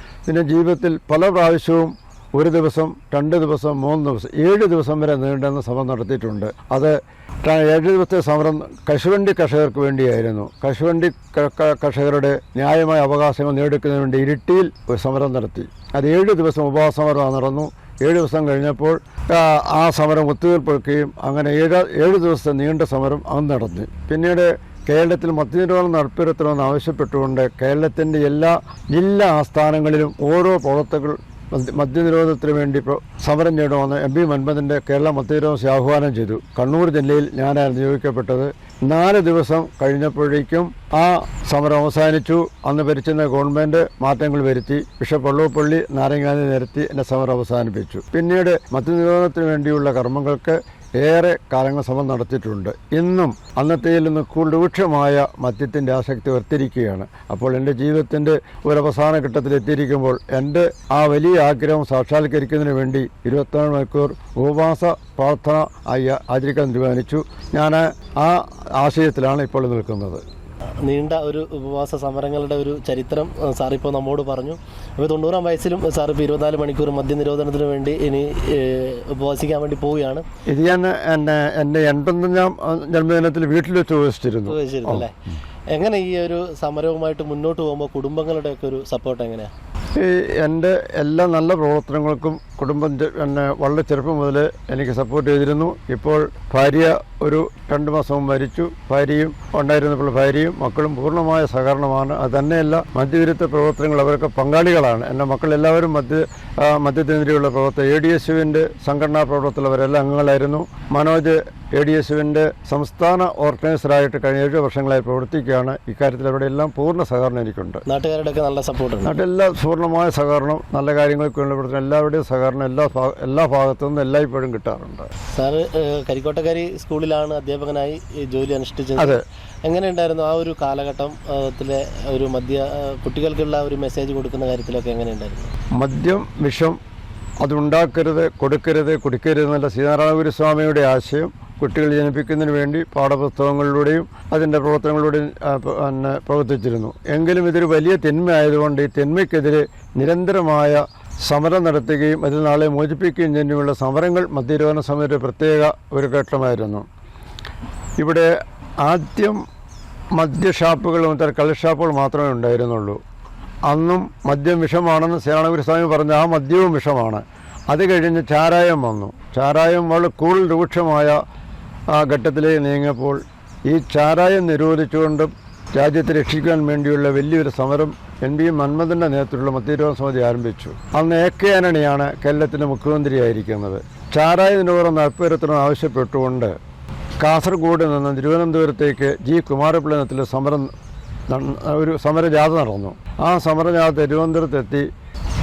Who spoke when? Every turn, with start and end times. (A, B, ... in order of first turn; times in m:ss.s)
0:00.3-1:10.2 A
1:10.8-1:20.2 B
1:20.5-1:25.0 A
1:24.5-1:25.1 B
1:25.7-1:29.5 B
1:30.0-1:57.8 A
1:57.9-1:59.1 B
1:59.0-2:05.1 A
2:05.3-2:15.5 B
2:15.8-2:16.8 A
2:17.4-2:36.8 A
2:38.0-2:38.3 A
2:38.8-2:39.4 A
2:40.1-2:43.0 A
2:43.7-2:51.2 A
2:51.9-3:06.5 A
3:07.2-3:10.7 A
3:11.3-3:14.8 A